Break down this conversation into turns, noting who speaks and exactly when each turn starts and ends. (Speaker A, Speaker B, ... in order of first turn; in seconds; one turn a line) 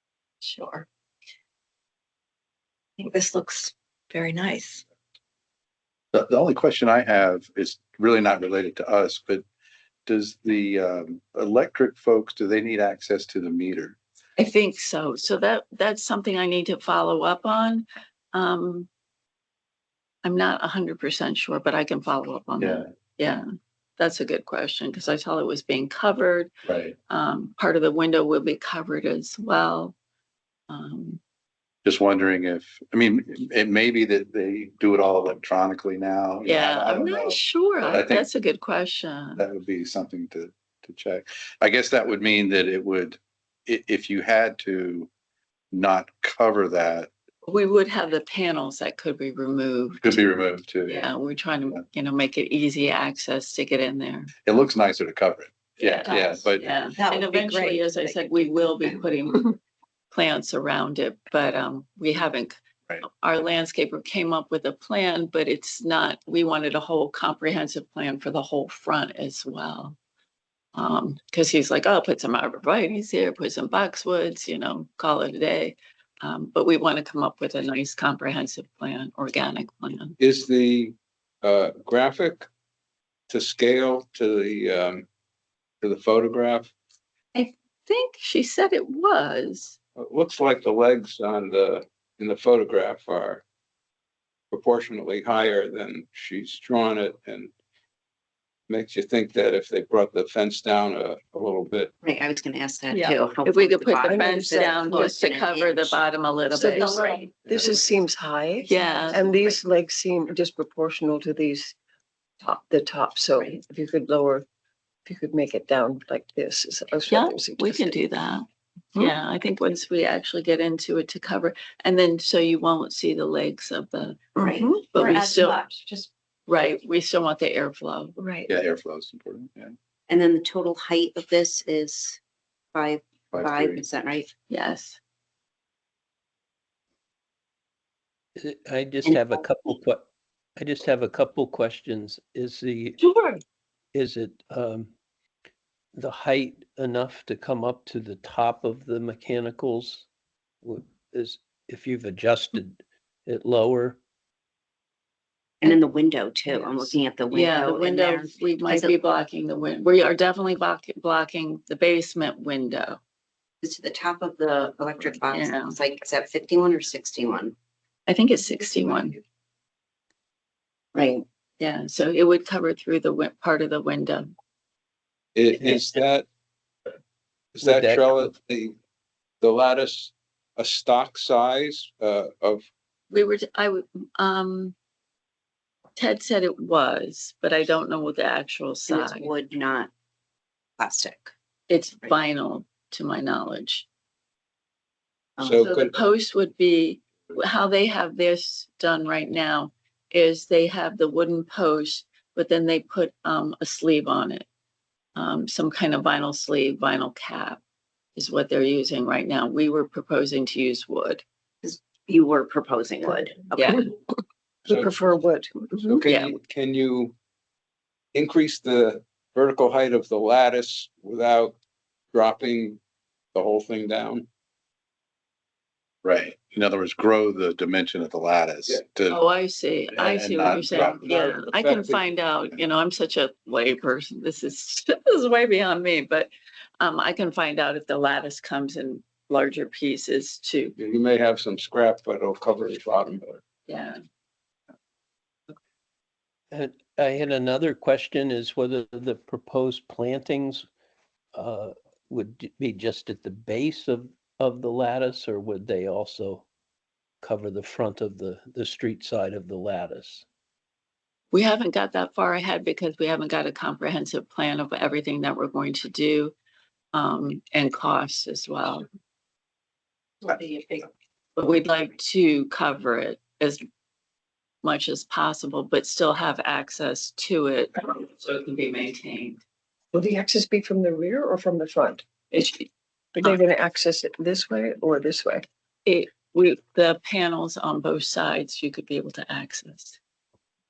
Speaker A: 0.4-0.8
Speaker B: 3.0-4.8
Speaker C: 6.1-9.4
Speaker C: 10.1-13.9
Speaker A: 14.4-18.9
Speaker A: 20.2-23.4
Speaker C: 22.6-22.9
Speaker A: 24.0-26.5
Speaker C: 26.6-26.9
Speaker A: 27.1-29.9
Speaker A: 30.7-31.2
Speaker C: 31.8-38.3
Speaker A: 36.4-39.4
Speaker C: 39.4-45.1
Speaker C: 45.7-47.1
Speaker A: 47.5-50.2
Speaker C: 50.0-51.1
Speaker A: 50.9-54.3
Speaker C: 54.4-56.7
Speaker A: 55.8-59.5
Speaker D: 57.0-58.1
Speaker A: 60.1-70.0
Speaker A: 70.7-80.2
Speaker E: 80.2-82.5
Speaker E: 83.3-85.0
Speaker E: 85.8-86.7
Speaker A: 87.3-89.8
Speaker E: 90.0-93.4
Speaker E: 94.5-97.5
Speaker E: 98.7-101.9
Speaker D: 102.0-106.0
Speaker A: 102.9-107.0
Speaker F: 104.0-105.2
Speaker F: 106.5-111.8
Speaker A: 108.7-109.3
Speaker F: 112.4-114.4
Speaker F: 115.0-118.0
Speaker A: 117.1-124.3
Speaker B: 124.8-125.8
Speaker A: 124.9-125.6
Speaker A: 126.5-128.2
Speaker B: 128.2-128.5
Speaker C: 128.5-129.7
Speaker D: 130.1-132.2
Speaker D: 132.7-134.3
Speaker C: 133.3-133.8
Speaker A: 134.5-135.0
Speaker G: 138.3-143.0
Speaker D: 139.0-139.4
Speaker A: 143.1-143.3
Speaker G: 143.9-144.9
Speaker G: 145.9-150.1
Speaker G: 150.6-154.0
Speaker D: 155.6-158.9
Speaker A: 156.5-163.0
Speaker D: 163.6-167.6
Speaker A: 165.3-165.7
Speaker A: 168.1-169.2
Speaker D: 170.9-171.2
Speaker A: 171.6-174.3
Speaker E: 175.3-176.2
Speaker G: 175.6-175.8
Speaker E: 177.5-178.7
Speaker G: 177.6-178.3
Speaker E: 179.4-182.7
Speaker A: 183.1-184.7
Speaker A: 185.9-189.3
Speaker D: 188.9-189.9
Speaker D: 190.8-191.3
Speaker A: 191.7-193.8
Speaker D: 195.4-195.8
Speaker E: 195.4-195.9
Speaker A: 195.7-204.5
Speaker A: 205.2-207.6
Speaker A: 208.1-211.2
Speaker D: 211.6-213.7
Speaker E: 214.7-214.9
Speaker F: 214.7-216.0
Speaker E: 215.8-217.1
Speaker A: 216.0-216.3
Speaker E: 218.1-221.5
Speaker E: 222.1-222.8
Speaker E: 223.3-224.2
Speaker C: 226.0-229.2
Speaker A: 229.1-240.8
Speaker C: 229.9-231.1
Speaker E: 230.7-232.1
Speaker E: 240.8-243.4
Speaker A: 243.7-244.0
Speaker G: 246.5-250.7
Speaker G: 251.3-256.4
Speaker G: 257.2-260.2
Speaker A: 261.3-266.3
Speaker A: 266.9-268.8
Speaker D: 270.3-270.8
Speaker A: 271.4-273.6
Speaker A: 274.6-279.4
Speaker F: 279.9-282.5
Speaker F: 283.1-285.4
Speaker A: 285.8-290.0